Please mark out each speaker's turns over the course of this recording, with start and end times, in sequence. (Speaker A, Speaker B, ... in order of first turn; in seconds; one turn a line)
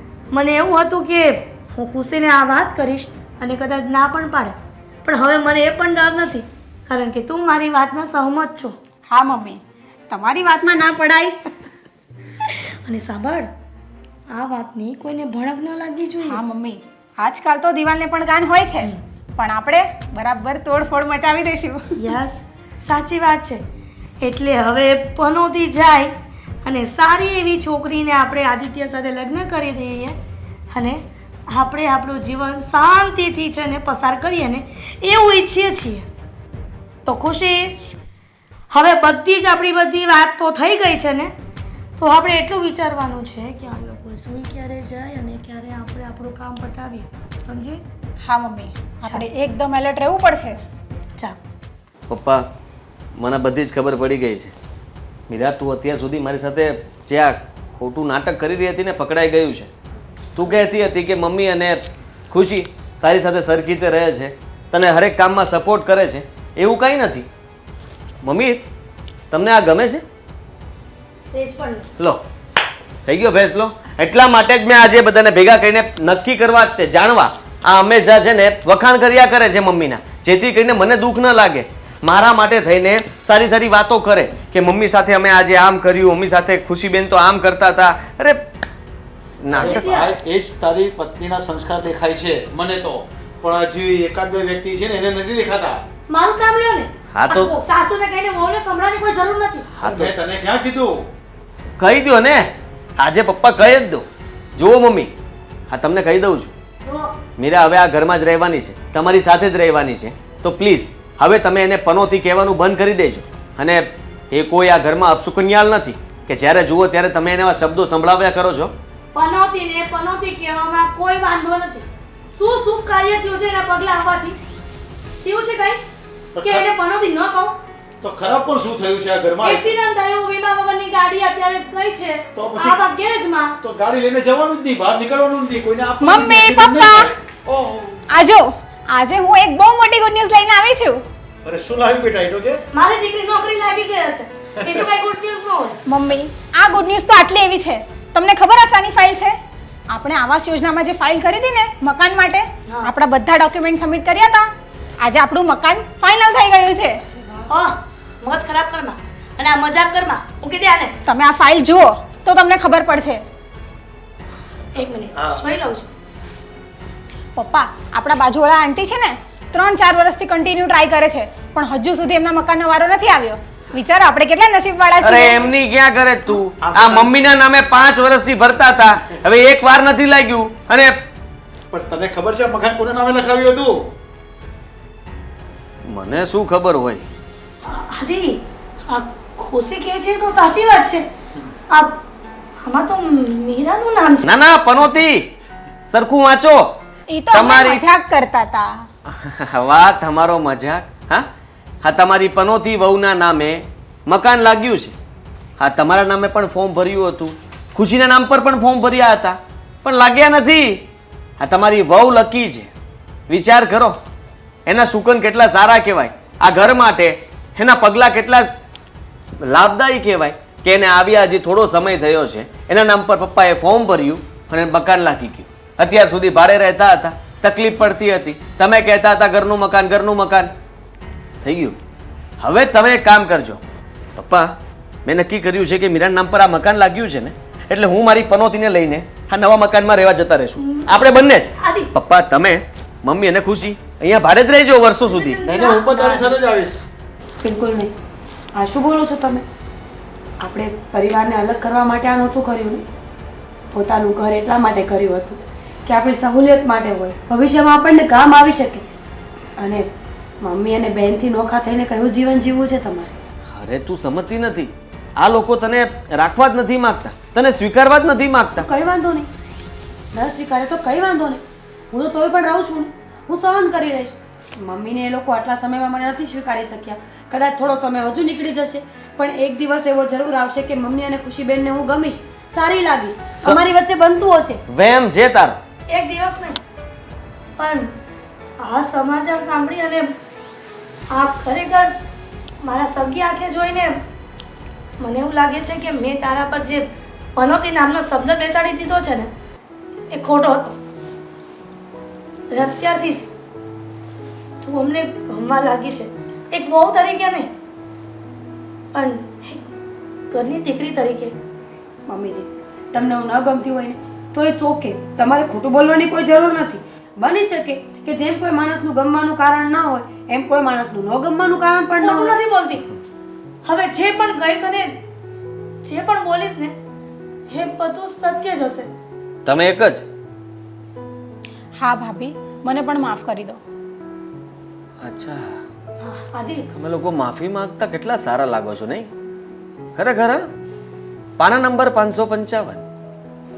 Speaker A: 0.3-8.7
Speaker B: 9.1-11.3
Speaker A: 12.6-13.5
Speaker A: 14.3-16.4
Speaker B: 16.2-22.1
Speaker A: 22.0-23.6
Speaker A: 24.2-26.1
Speaker A: 26.6-30.1
Speaker A: 30.7-36.0
Speaker A: 37.0-37.7
Speaker A: 38.7-41.3
Speaker A: 42.0-47.8
Speaker B: 48.2-50.6
Speaker C: 52.1-52.5
Speaker C: 53.2-54.5
Speaker C: 55.3-59.7
Speaker C: 60.3-67.3
Speaker C: 68.2-68.6
Speaker C: 69.3-70.0
Speaker A: 71.3-71.8
Speaker C: 73.0-88.4
Speaker C: 89.4-89.8
Speaker D: 89.5-95.8
Speaker A: 89.5-90.1
Speaker A: 96.1-99.7
Speaker C: 97.1-97.5
Speaker C: 99.8-100.1
Speaker D: 99.8-101.0
Speaker C: 101.8-105.1
Speaker C: 105.7-106.5
Speaker A: 106.8-107.1
Speaker C: 107.4-118.7
Speaker A: 119.1-124.4
Speaker A: 125.2-125.8
Speaker D: 126.3-126.7
Speaker A: 126.4-127.5
Speaker D: 128.0-129.7
Speaker A: 129.4-133.5
Speaker D: 132.3-132.8
Speaker D: 133.6-138.0
Speaker B: 136.0-137.2
Speaker B: 138.1-141.0
Speaker D: 141.4-142.6
Speaker A: 142.7-145.8
Speaker B: 145.8-149.3
Speaker B: 149.9-157.0
Speaker A: 152.7-152.9
Speaker A: 157.5-161.0
Speaker B: 161.0-163.2
Speaker A: 164.7-165.9
Speaker B: 167.3-175.5
Speaker C: 175.0-180.9
Speaker D: 176.6-177.1
Speaker D: 181.7-183.9
Speaker C: 185.9-187.1
Speaker A: 187.6-191.0
Speaker A: 191.7-192.0
Speaker A: 192.6-194.3
Speaker C: 194.2-195.3
Speaker C: 195.9-196.8
Speaker B: 197.1-198.8
Speaker C: 197.3-197.8
Speaker C: 199.1-201.3
Speaker C: 201.8-204.9
Speaker C: 205.6-210.9
Speaker C: 211.4-212.7
Speaker C: 213.3-214.0
Speaker C: 214.7-218.5
Speaker C: 219.4-230.5
Speaker C: 231.4-231.8
Speaker C: 232.4-233.6
Speaker C: 234.1-245.4
Speaker A: 240.6-241.9
Speaker A: 245.0-246.3
Speaker D: 245.4-246.8
Speaker E: 247.4-247.9
Speaker E: 248.5-249.4
Speaker E: 250.4-252.8
Speaker E: 253.7-258.8
Speaker E: 259.6-259.9
Speaker E: 260.4-263.1
Speaker C: 263.5-268.7
Speaker E: 268.6-269.3
Speaker E: 270.1-284.6
Speaker C: 284.7-285.6
Speaker A: 285.9-286.6
Speaker A: 287.6-287.9
Speaker A: 288.6-290.1
Speaker A: 291.1-291.9
Speaker A: 292.6-294.0
Speaker A: 295.0-299.3
Speaker A: 300.1-300.8
Speaker A: 302.5-303.3
Speaker A: 304.6-307.5
Speaker A: 308.9-309.6
Speaker A: 310.3-311.3
Speaker E: 312.1-322.4
Speaker A: 322.0-322.8
Speaker A: 323.6-324.9
Speaker A: 325.8-326.7
Speaker A: 327.5-328.9
Speaker C: 329.4-330.0
Speaker B: 331.8-333.6
Speaker C: 335.0-335.6
Speaker A: 336.0-336.7
Speaker C: 336.7-339.1
Speaker C: 339.9-340.5
Speaker C: 341.4-342.8